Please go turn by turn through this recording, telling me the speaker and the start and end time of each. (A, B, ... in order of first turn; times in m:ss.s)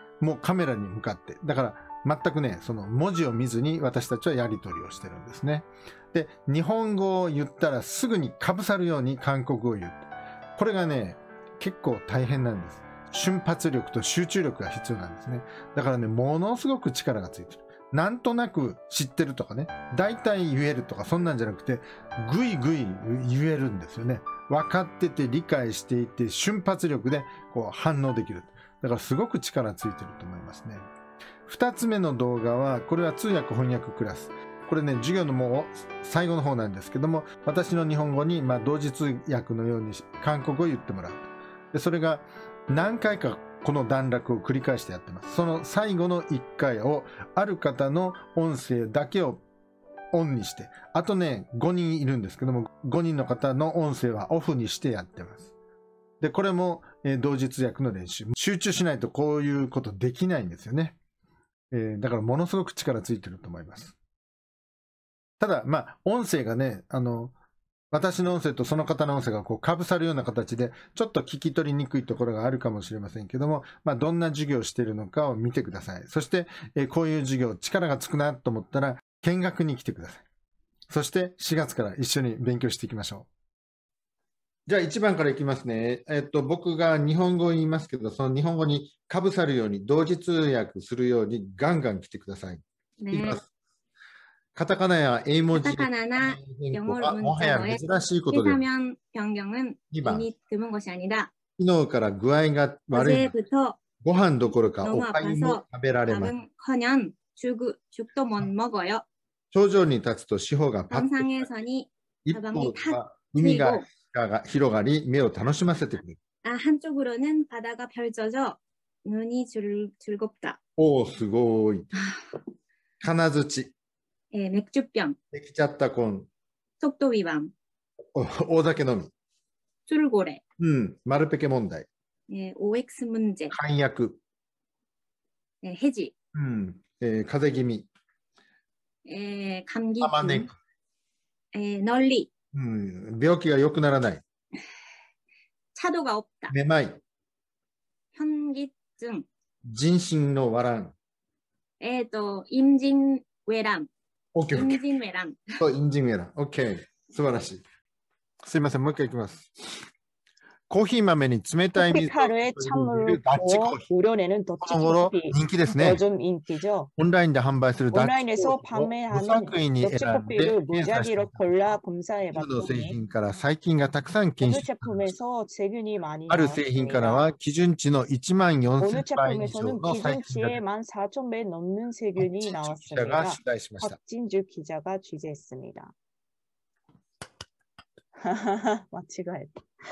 0:00.2-0:30.9 A
0:31.4-0:49.4 A
0:50.1-0:55.5 A
0:56.2-1:01.0 A
1:01.7-1:04.0 A
1:05.4-1:07.4 A
1:07.9-1:20.2 A
1:20.9-1:23.3 A
1:24.7-1:33.5 A
1:33.0-1:33.4 B
1:34.6-1:38.6 A
1:35.5-1:41.3 B
1:39.9-1:40.3 A
1:41.6-1:43.4 A
1:42.9-1:43.8 B
1:44.0-1:46.4 A
1:44.8-1:49.0 B
1:49.5-1:51.5 A
1:50.9-1:53.8 B
1:52.2-1:56.2 A
1:56.4-2:00.6 B
2:00.8-2:01.9 A
2:02.0-2:02.3 B
2:03.0-2:03.7 A
2:04.3-2:05.2 B
2:05.3-2:06.3 A
2:06.8-2:07.5 B
2:08.2-2:09.1 A
2:09.9-2:10.4 B
2:10.6-2:11.9 A
2:12.3-2:13.5 B
2:13.5-2:14.2 A
2:15.6-2:16.1 B
2:16.4-2:17.9 A
2:19.1-2:20.5 B
2:20.0-2:20.6 A
2:21.5-2:22.3 B
2:22.5-2:24.2 A
2:25.8-2:26.5 B
2:26.5-2:27.0 A
2:28.1-2:29.3 B
2:29.6-2:31.0 A
2:31.8-2:33.9 B
2:34.4-2:34.8 A
2:34.5-2:35.4 B
2:35.6-2:37.6 A
2:38.4-2:39.5 A
2:40.7-2:43.9 A
2:41.8-2:46.9 C
2:44.6-2:46.0 A
2:47.0-2:55.1 A
2:47.9-2:53.0 C
2:54.4-2:57.3 C
2:56.3-3:00.6 A
2:58.8-3:05.9 C
3:02.2-3:04.0 A
3:08.2-3:09.6 C